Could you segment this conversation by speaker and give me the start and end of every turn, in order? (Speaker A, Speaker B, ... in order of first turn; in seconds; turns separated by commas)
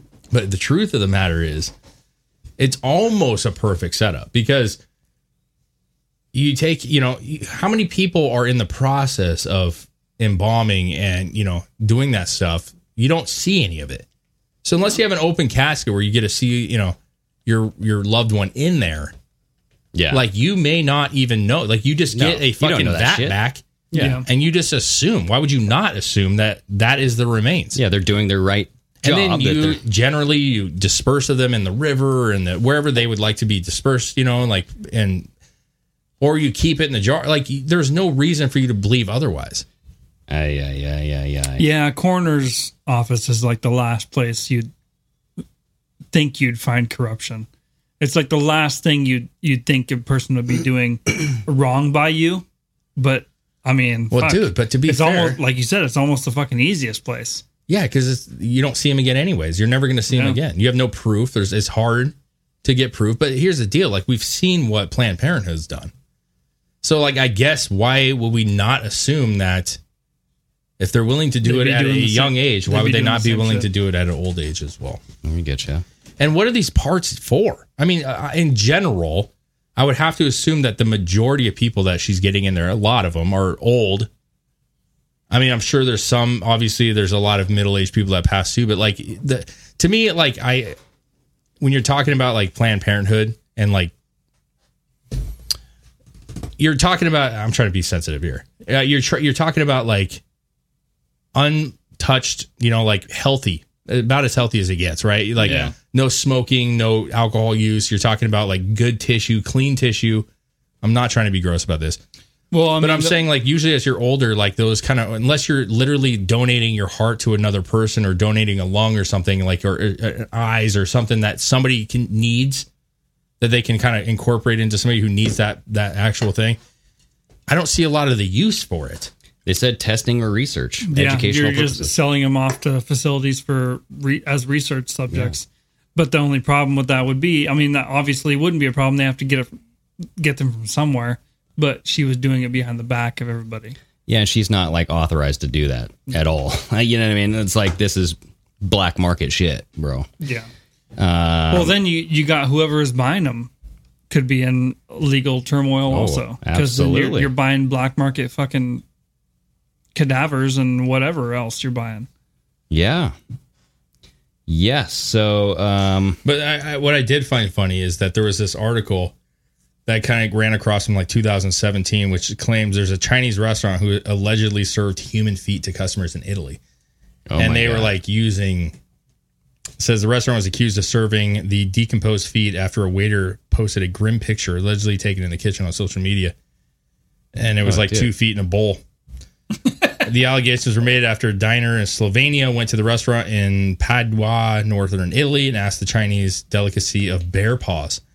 Speaker A: 0.3-1.7, Speaker A: 2.6-4.8, Speaker A: 6.3-14.1, Speaker A: 14.6-19.1, Speaker B: 19.9-20.2, Speaker A: 20.1-27.8, Speaker B: 22.1-23.4, Speaker B: 23.9-24.2, Speaker C: 23.9-24.2, Speaker B: 27.7-29.8, Speaker A: 29.0-35.3, Speaker A: 36.2-39.6, Speaker B: 40.3-41.7, Speaker C: 41.6-44.7, Speaker C: 46.1-47.5, Speaker C: 48.0-52.4, Speaker C: 53.0-57.4, Speaker A: 54.1-55.4, Speaker A: 57.7-65.9, Speaker C: 60.1-60.4, Speaker A: 66.8-69.8, Speaker A: 70.8-75.0, Speaker C: 71.4-73.7, Speaker B: 75.2-75.8, Speaker A: 76.2-84.1, Speaker A: 85.3-90.8, Speaker A: 91.6-93.9, Speaker A: 96.6-100.2, Speaker A: 101.3-110.3, Speaker B: 105.4-105.7, Speaker A: 110.8-112.0, Speaker C: 112.5-113.2, Speaker A: 112.8-122.7, Speaker A: 123.4-126.6, Speaker A: 127.5-129.1, Speaker B: 129.4-131.9, Speaker C: 130.8-139.5, Speaker B: 135.1-135.3, Speaker C: 140.2-143.8, Speaker B: 144.1-150.1, Speaker C: 150.2-150.5, Speaker B: 151.0-151.8, Speaker C: 151.5-153.5, Speaker C: 154.1-158.8, Speaker B: 155.9-157.3, Speaker C: 159.9-162.1, Speaker B: 162.7-163.1, Speaker B: 164.5-166.2, Speaker A: 166.2-169.1, Speaker A: 169.8-176.6, Speaker B: 177.3-177.9, Speaker A: 177.4-178.8, Speaker A: 179.8-186.3, Speaker A: 187.3-188.8, Speaker B: 187.6-188.1, Speaker A: 190.0-198.0